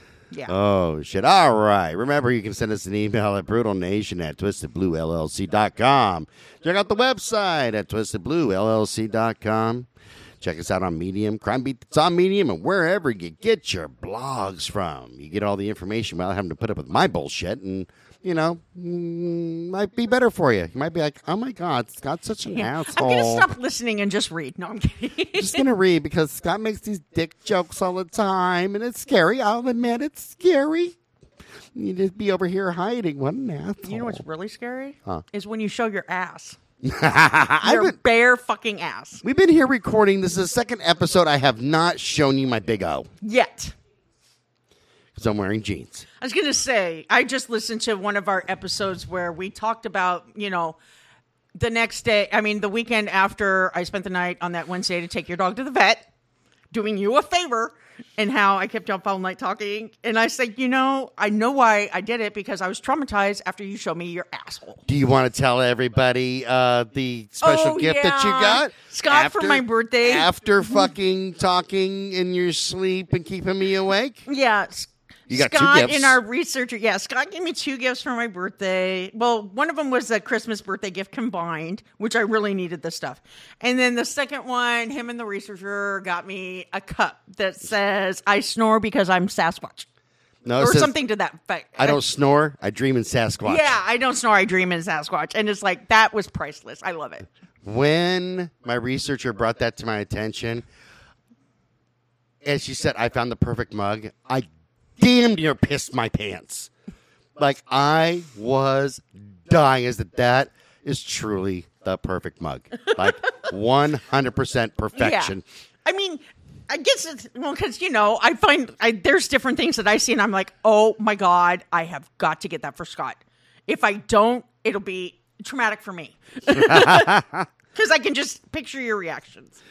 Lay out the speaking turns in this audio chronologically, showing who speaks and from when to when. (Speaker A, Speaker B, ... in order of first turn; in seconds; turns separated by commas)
Speaker A: 0.5-9.9, Speaker A: 10.4-23.5, Speaker B: 22.5-25.6, Speaker A: 25.3-30.9, Speaker A: 31.7-34.2, Speaker B: 33.8-36.6, Speaker A: 36.8-38.0, Speaker B: 37.6-39.2, Speaker A: 39.2-43.1, Speaker B: 43.2-43.7, Speaker A: 45.1-46.0, Speaker B: 46.2-50.8, Speaker B: 51.5-56.0, Speaker B: 56.7-64.8, Speaker A: 64.9-74.2, Speaker B: 67.4-70.9, Speaker B: 74.2-89.8, Speaker A: 75.3-76.2, Speaker A: 90.4-90.9, Speaker B: 90.6-92.0, Speaker A: 91.8-93.7, Speaker B: 93.4-97.3, Speaker A: 97.6-100.6, Speaker A: 102.4-104.5, Speaker A: 105.0-106.7, Speaker A: 107.4-115.4, Speaker B: 115.0-127.2, Speaker A: 126.5-127.5, Speaker B: 127.7-129.6